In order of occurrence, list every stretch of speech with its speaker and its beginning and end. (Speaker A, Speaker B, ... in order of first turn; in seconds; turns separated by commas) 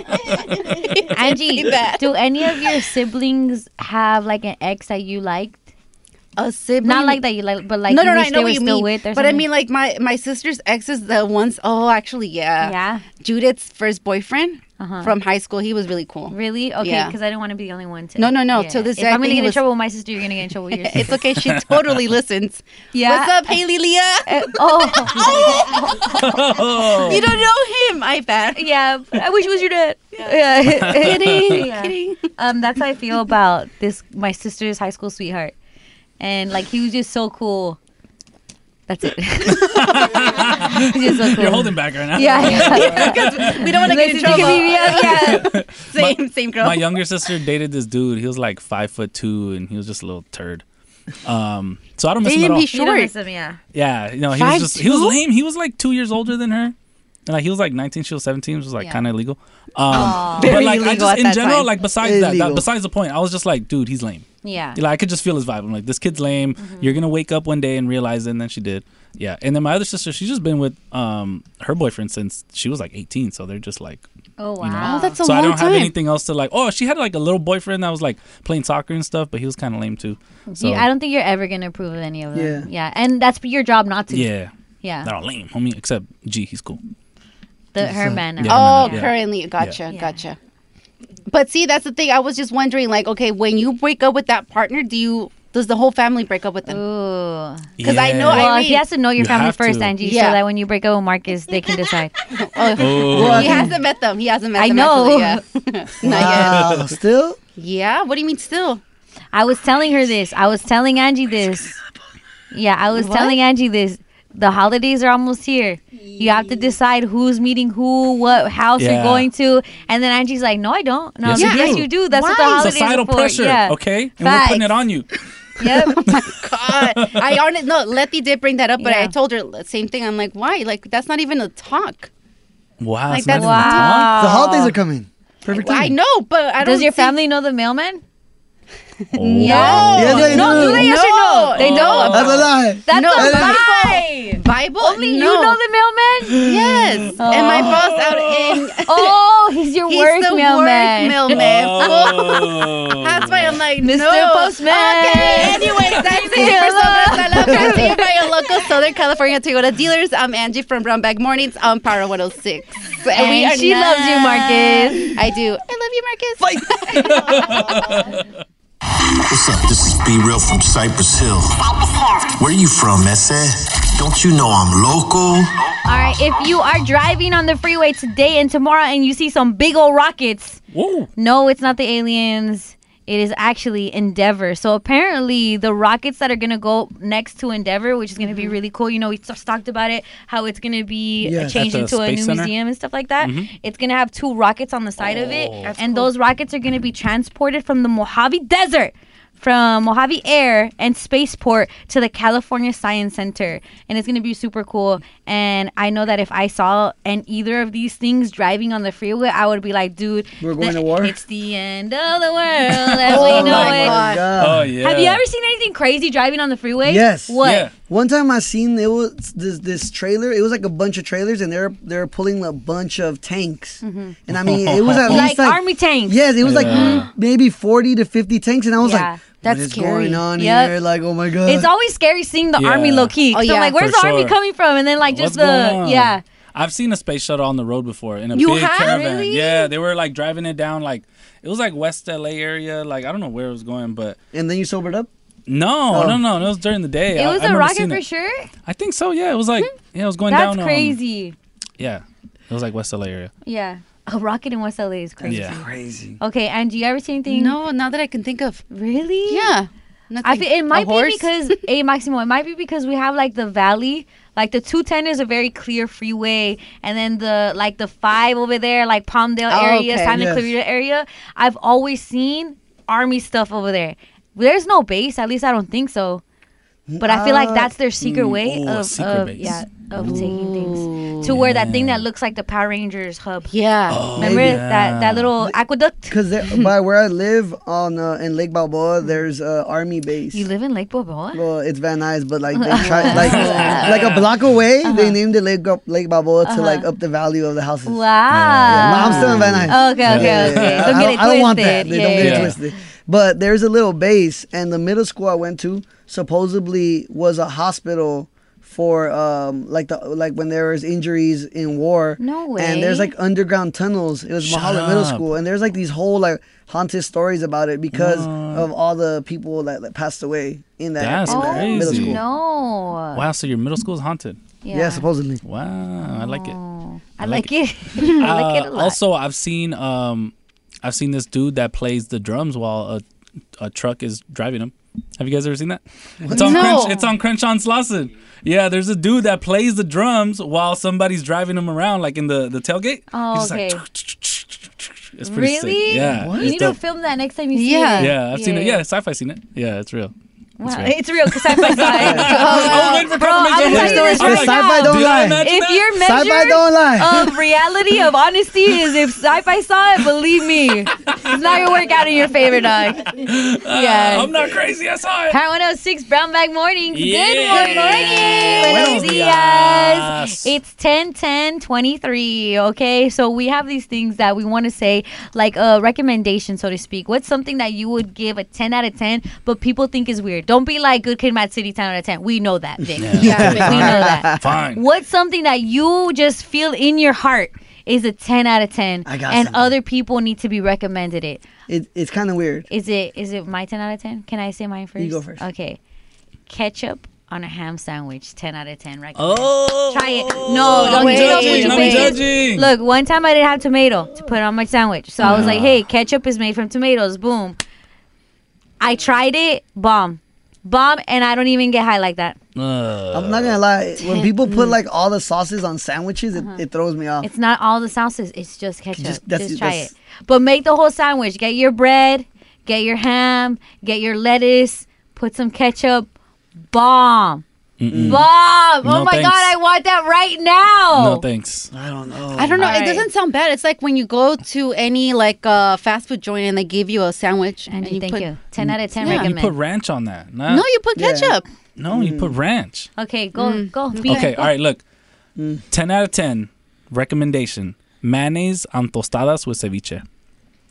Speaker A: 0.1-2.1, Speaker B: 1.1-5.6, Speaker A: 6.4-7.2, Speaker B: 6.8-9.5, Speaker A: 7.9-17.1, Speaker B: 12.6-13.0, Speaker B: 14.8-15.1, Speaker B: 16.3-21.1, Speaker A: 18.2-19.6, Speaker A: 20.7-28.6, Speaker C: 20.9-22.0, Speaker B: 22.9-23.5, Speaker B: 24.2-26.1, Speaker C: 26.1-27.4, Speaker B: 28.5-35.5, Speaker C: 30.7-31.6, Speaker A: 30.9-32.2, Speaker B: 36.2-37.8, Speaker B: 38.9-45.5, Speaker C: 39.5-50.6, Speaker A: 42.3-47.0, Speaker C: 51.2-52.7, Speaker A: 52.2-53.1, Speaker B: 52.7-53.6, Speaker C: 53.7-56.7, Speaker A: 54.3-55.2, Speaker C: 57.3-74.0, Speaker A: 59.9-61.7, Speaker B: 59.9-60.6, Speaker D: 62.0-62.6, Speaker B: 64.4-64.8, Speaker B: 66.6-67.0, Speaker B: 74.4-75.1, Speaker C: 74.6-80.9, Speaker A: 74.8-75.9, Speaker B: 80.5-84.3, Speaker D: 82.3-82.7, Speaker C: 84.1-84.5, Speaker B: 84.8-85.1, Speaker C: 85.0-86.8, Speaker B: 87.7-89.1, Speaker D: 87.8-88.2, Speaker C: 88.4-89.8, Speaker A: 88.5-90.4, Speaker B: 89.9-90.2, Speaker A: 91.3-96.8, Speaker B: 96.7-97.7, Speaker C: 97.8-98.5, Speaker A: 97.8-98.8, Speaker B: 98.3-102.1, Speaker C: 99.2-99.9, Speaker A: 100.0-100.4, Speaker A: 102.3-106.8, Speaker C: 102.8-103.7, Speaker D: 103.0-103.7, Speaker B: 104.6-105.4, Speaker D: 106.0-107.4, Speaker A: 107.5-108.8, Speaker B: 109.3-111.8, Speaker B: 112.5-124.8, Speaker A: 112.9-113.4, Speaker C: 118.8-119.3, Speaker C: 121.2-121.9, Speaker A: 121.3-122.8, Speaker C: 122.6-125.1, Speaker B: 125.6-126.0, Speaker A: 125.6-132.1, Speaker C: 126.1-127.2, Speaker B: 128.8-129.1, Speaker C: 132.8-134.4, Speaker A: 133.1-134.1, Speaker B: 133.3-134.7, Speaker D: 134.2-135.9, Speaker A: 135.5-137.1, Speaker B: 136.6-138.0, Speaker C: 139.1-140.6, Speaker D: 139.2-141.0, Speaker A: 139.3-145.6, Speaker B: 139.4-146.4, Speaker C: 141.6-142.1, Speaker D: 142.1-143.6, Speaker C: 146.3-148.6, Speaker A: 146.4-149.2, Speaker B: 147.2-147.8, Speaker B: 148.9-152.1, Speaker A: 149.9-167.6, Speaker C: 151.3-153.6, Speaker B: 153.8-158.1, Speaker B: 163.1-165.1, Speaker D: 166.4-167.4, Speaker C: 167.2-168.1, Speaker E: 169.3-171.6, Speaker E: 172.3-175.6, Speaker B: 175.8-180.6, Speaker C: 180.7-181.1, Speaker B: 181.2-214.1, Speaker A: 188.2-188.5, Speaker D: 191.2-191.6, Speaker C: 191.4-192.5, Speaker C: 193.2-193.5, Speaker C: 195.1-195.8, Speaker A: 195.8-196.0, Speaker D: 210.4-211.1, Speaker C: 212.7-213.6, Speaker D: 213.0-214.7, Speaker A: 213.0-214.3, Speaker C: 214.4-215.2, Speaker B: 214.8-217.7, Speaker D: 216.8-231.7, Speaker C: 217.4-217.7, Speaker B: 223.8-224.2, Speaker C: 224.3-225.3, Speaker B: 225.1-227.1, Speaker A: 225.1-225.4, Speaker C: 226.4-227.1, Speaker B: 228.8-230.8, Speaker A: 229.4-230.0, Speaker B: 231.4-236.2, Speaker C: 232.6-233.2, Speaker A: 233.3-233.8, Speaker C: 233.8-234.3, Speaker C: 235.1-244.2, Speaker A: 238.3-239.7, Speaker D: 244.3-245.1, Speaker C: 245.5-248.0, Speaker D: 245.9-246.2, Speaker B: 247.1-248.5, Speaker C: 248.7-251.0, Speaker B: 250.3-251.3, Speaker C: 251.8-253.3, Speaker B: 253.4-255.6, Speaker D: 255.2-256.2, Speaker C: 255.3-255.6, Speaker B: 256.2-257.6, Speaker A: 257.3-258.6, Speaker B: 258.7-259.5, Speaker A: 259.3-261.3, Speaker B: 260.2-276.2, Speaker A: 269.5-270.2, Speaker D: 270.1-270.5, Speaker D: 276.9-277.7, Speaker B: 277.0-283.5, Speaker C: 278.0-280.2, Speaker A: 280.0-281.3, Speaker C: 281.2-282.0, Speaker A: 283.5-284.1, Speaker C: 283.9-285.3, Speaker D: 284.1-284.6, Speaker B: 284.2-286.6, Speaker D: 286.1-290.4, Speaker B: 290.3-291.4, Speaker D: 291.3-298.0, Speaker B: 292.5-294.1, Speaker C: 293.0-294.2, Speaker B: 294.8-295.2, Speaker B: 296.4-296.9, Speaker B: 297.9-302.6, Speaker C: 298.3-301.0, Speaker D: 298.6-322.2, Speaker C: 302.1-302.6, Speaker B: 312.2-313.1, Speaker C: 314.4-315.3, Speaker C: 317.9-318.7, Speaker C: 321.0-322.2, Speaker B: 321.3-323.2, Speaker C: 323.1-324.4, Speaker B: 324.6-325.0, Speaker D: 324.7-325.4, Speaker C: 325.4-326.6, Speaker B: 326.1-329.0, Speaker C: 327.2-333.0, Speaker C: 333.6-346.8, Speaker D: 336.2-336.8, Speaker A: 336.3-337.0, Speaker B: 343.1-343.8, Speaker B: 345.2-348.8, Speaker D: 346.1-346.6, Speaker A: 347.5-348.1, Speaker C: 348.0-350.1, Speaker B: 350.6-364.3, Speaker C: 350.6-356.0, Speaker D: 352.0-352.4, Speaker A: 352.1-353.2, Speaker D: 353.7-355.4, Speaker D: 356.0-357.4, Speaker C: 361.1-361.4, Speaker C: 363.1-365.4, Speaker B: 365.3-391.4, Speaker C: 366.9-370.5, Speaker A: 367.5-369.0, Speaker C: 383.0-384.8, Speaker D: 383.1-384.5, Speaker A: 383.2-384.1, Speaker D: 389.0-389.7, Speaker D: 391.7-392.7, Speaker B: 392.7-395.8, Speaker D: 395.0-395.4, Speaker B: 396.5-407.6, Speaker C: 399.1-402.7, Speaker A: 400.6-402.2, Speaker C: 405.2-405.8, Speaker B: 408.8-412.4, Speaker C: 412.6-413.6, Speaker D: 413.1-417.3, Speaker B: 416.3-416.6, Speaker B: 417.2-426.1, Speaker D: 418.9-419.9, Speaker B: 426.7-427.4, Speaker C: 427.8-428.3, Speaker D: 427.9-428.2, Speaker B: 428.0-431.2, Speaker C: 428.8-429.5, Speaker C: 430.9-431.7, Speaker D: 431.7-432.7, Speaker A: 432.3-438.3, Speaker B: 432.6-433.1, Speaker B: 437.7-439.5, Speaker A: 439.0-439.3, Speaker C: 439.0-440.6, Speaker A: 440.5-441.4, Speaker D: 440.9-441.4, Speaker C: 441.8-442.9, Speaker D: 441.9-442.3, Speaker B: 443.0-444.5, Speaker A: 443.4-444.4, Speaker C: 444.0-444.8, Speaker D: 445.4-445.6, Speaker C: 445.7-450.0